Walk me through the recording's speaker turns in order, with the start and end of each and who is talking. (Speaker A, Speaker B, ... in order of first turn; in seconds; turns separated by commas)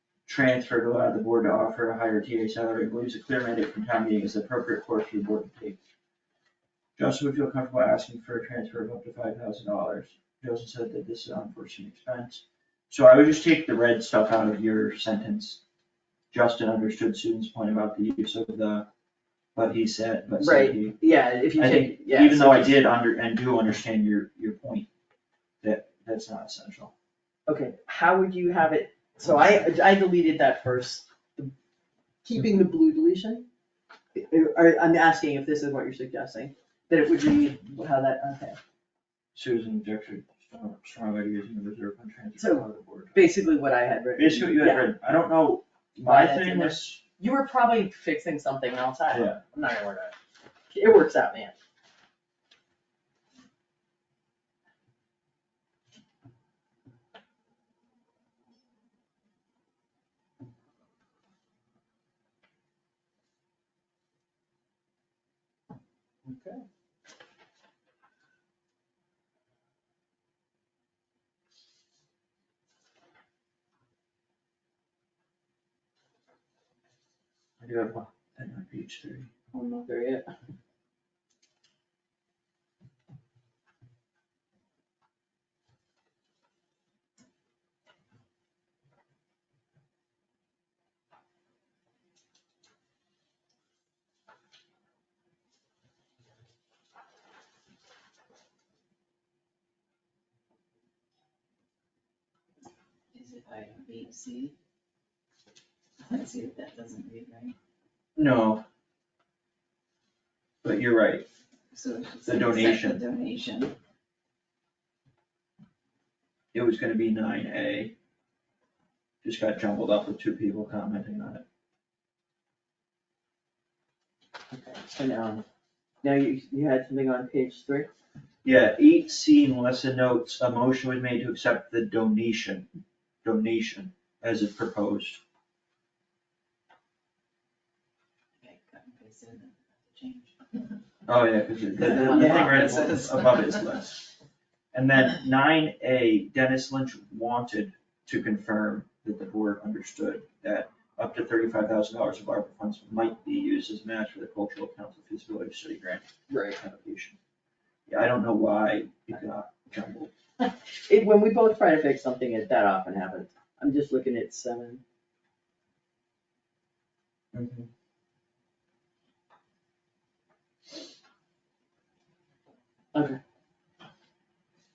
Speaker A: 0.3-5.8, Speaker A: 7.0-15.6, Speaker A: 16.3-18.9, Speaker A: 19.5-21.0, Speaker B: 20.4-22.8, Speaker A: 21.6-24.9, Speaker A: 25.6-26.9, Speaker B: 27.5-31.5, Speaker B: 32.2-33.4, Speaker B: 34.1-38.6, Speaker A: 39.3-43.3, Speaker B: 42.4-44.9, Speaker A: 44.1-47.0, Speaker B: 46.0-50.1, Speaker A: 49.1-49.4, Speaker B: 50.7-51.5, Speaker B: 66.3-66.5, Speaker A: 77.6-79.3, Speaker B: 79.5-80.3, Speaker C: 103.1-104.5, Speaker C: 106.0-107.5, Speaker A: 108.2-108.6, Speaker A: 110.6-111.2, Speaker C: 111.7-113.7, Speaker A: 112.2-113.0, Speaker A: 116.5-117.9, Speaker A: 119.2-121.4, Speaker B: 124.5-125.4, Speaker B: 126.0-127.9, Speaker A: 128.4-132.7, Speaker A: 133.2-135.2, Speaker C: 138.4-140.4, Speaker A: 141.1-144.1, Speaker B: 141.8-143.0, Speaker C: 141.9-143.5, Speaker A: 144.7-157.2, Speaker B: 156.3-156.6, Speaker A: 157.9-160.1, Speaker B: 160.4-164.8, Speaker A: 167.3-167.7, Speaker B: 172.9-173.2